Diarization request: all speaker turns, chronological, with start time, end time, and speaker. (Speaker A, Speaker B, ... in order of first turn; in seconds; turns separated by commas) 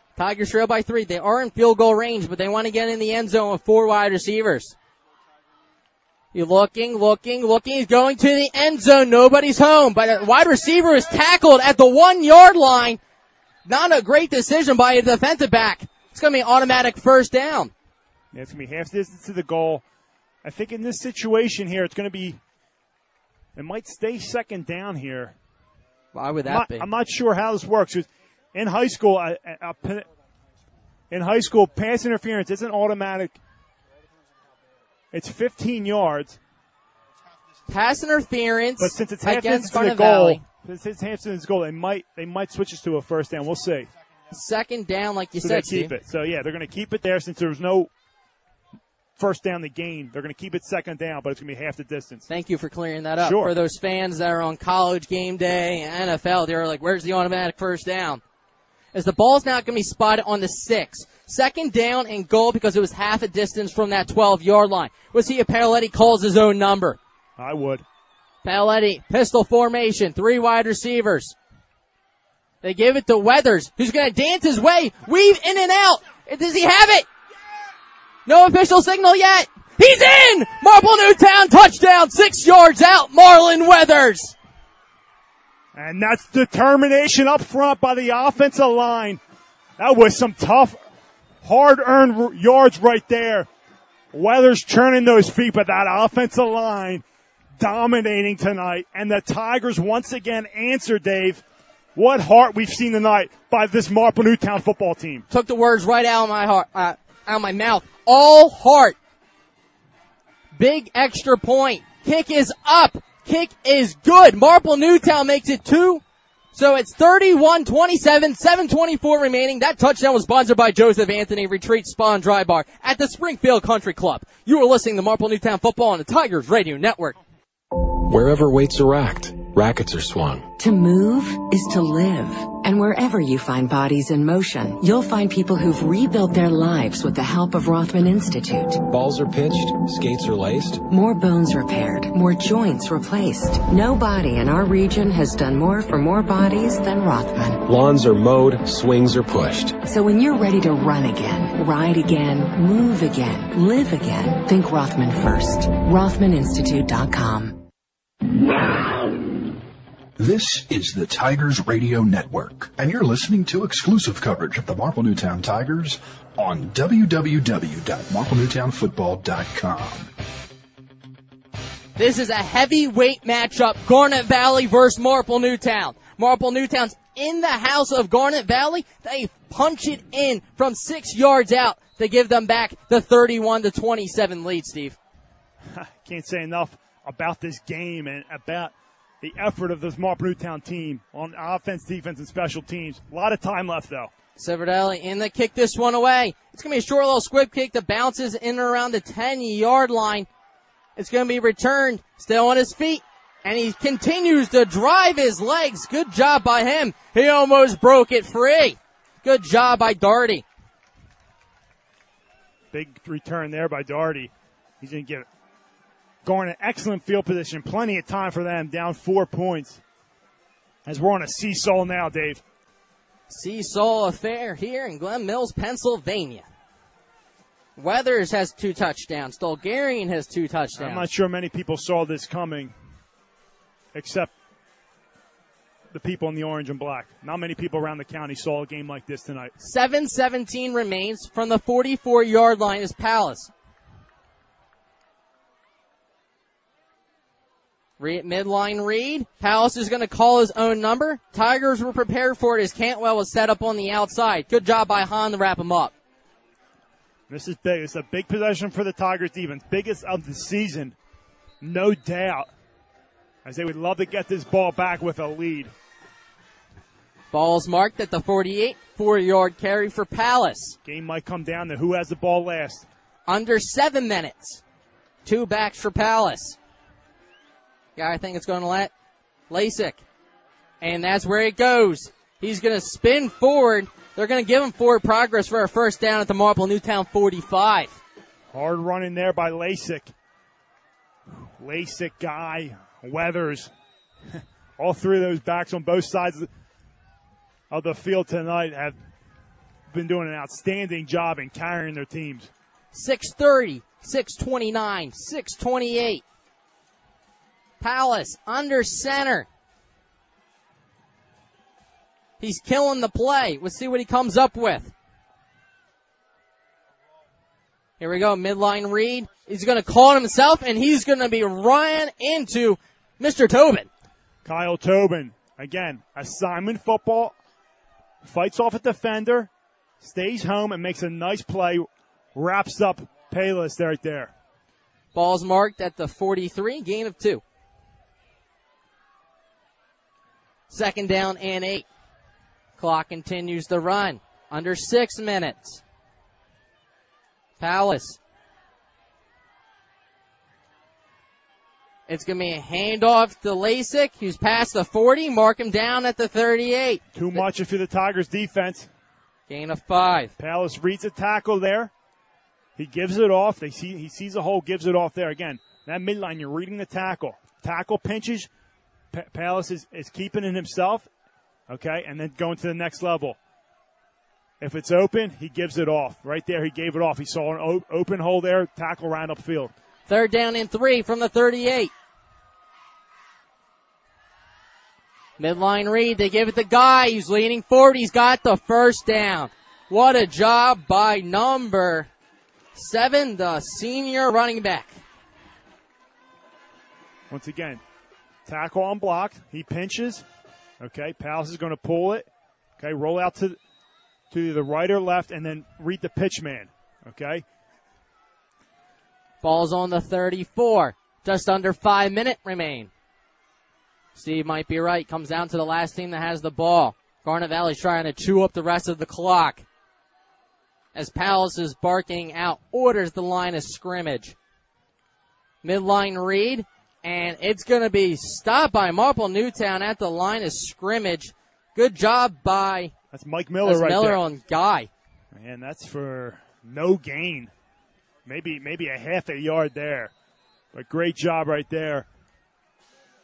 Speaker A: 0.1-4.8, Speaker A: 6.3-13.0, Speaker A: 13.7-17.7, Speaker B: 18.3-19.8, Speaker B: 20.4-22.4, Speaker B: 23.6-25.4, Speaker A: 26.1-26.9, Speaker B: 26.4-30.1, Speaker B: 31.1-33.4, Speaker B: 35.1-36.4, Speaker A: 37.7-40.4, Speaker B: 38.8-43.9, Speaker A: 44.3-45.9, Speaker B: 45.4-47.9, Speaker B: 49.2-52.2, Speaker A: 52.3-58.2, Speaker B: 53.2-53.5, Speaker A: 58.9-67.0, Speaker B: 67.4-67.8, Speaker A: 68.4-71.3, Speaker A: 72.6-77.1, Speaker A: 78.2-84.3, Speaker B: 85.7-89.2, Speaker B: 89.8-90.8, Speaker B: 91.4-93.5, Speaker B: 94.1-97.0, Speaker B: 97.6-101.4, Speaker B: 101.9-105.2, Speaker A: 105.3-109.0, Speaker A: 110.5-116.0, Speaker A: 116.5-127.2, Speaker C: 128.0-130.5, Speaker D: 130.6-138.8, Speaker C: 138.9-140.8, Speaker D: 140.8-147.6, Speaker C: 147.7-149.8, Speaker D: 149.8-157.6, Speaker E: 160.2-170.1, Speaker A: 171.9-185.0, Speaker B: 185.7-194.1, Speaker A: 194.4-200.3, Speaker A: 200.9-210.4, Speaker B: 212.7-215.3, Speaker B: 216.2-219.8, Speaker B: 220.8-222.4, Speaker A: 223.3-226.4, Speaker A: 227.8-231.1, Speaker B: 230.8-232.7, Speaker B: 233.9-234.3, Speaker B: 235.9-239.5, Speaker A: 239.6-243.5, Speaker A: 248.0-255.9, Speaker B: 257.3-260.9, Speaker B: 261.6-262.5, Speaker B: 263.4-265.7, Speaker A: 267.3-270.8, Speaker B: 270.8-272.9, Speaker A: 273.3-274.6, Speaker A: 275.2-276.6, Speaker A: 277.9-278.9, Speaker A: 279.5-280.0, Speaker A: 280.8-288.0, Speaker B: 288.5-290.1, Speaker B: 291.3-293.7, Speaker B: 294.3-296.5, Speaker B: 297.7-299.0, Speaker B: 299.9-302.5, Speaker A: 302.9-306.2, Speaker A: 307.8-309.5, Speaker A: 312.4-314.9, Speaker A: 318.0-323.9, Speaker B: 324.4-327.3, Speaker B: 328.2-329.5, Speaker B: 330.0-334.3, Speaker A: 335.1-337.4, Speaker A: 340.7-341.9, Speaker A: 342.8-345.8, Speaker A: 347.6-348.2, Speaker A: 352.1-357.4, Speaker B: 357.1-358.9, Speaker A: 359.5-360.3, Speaker B: 360.4-361.9, Speaker B: 362.8-368.5, Speaker B: 369.1-371.1, Speaker B: 371.7-373.4, Speaker B: 374.6-379.7, Speaker A: 380.1-381.9, Speaker A: 385.4-392.1, Speaker A: 392.7-395.0, Speaker B: 397.3-397.8, Speaker B: 398.4-400.2, Speaker B: 400.8-402.3, Speaker B: 402.8-403.6, Speaker B: 404.3-407.4, Speaker A: 409.4-412.9, Speaker A: 414.1-419.6, Speaker A: 420.9-424.4, Speaker A: 425.6-432.9, Speaker B: 433.1-434.2, Speaker A: 433.6-434.9, Speaker B: 435.3-437.5, Speaker B: 438.2-440.1, Speaker B: 440.7-442.1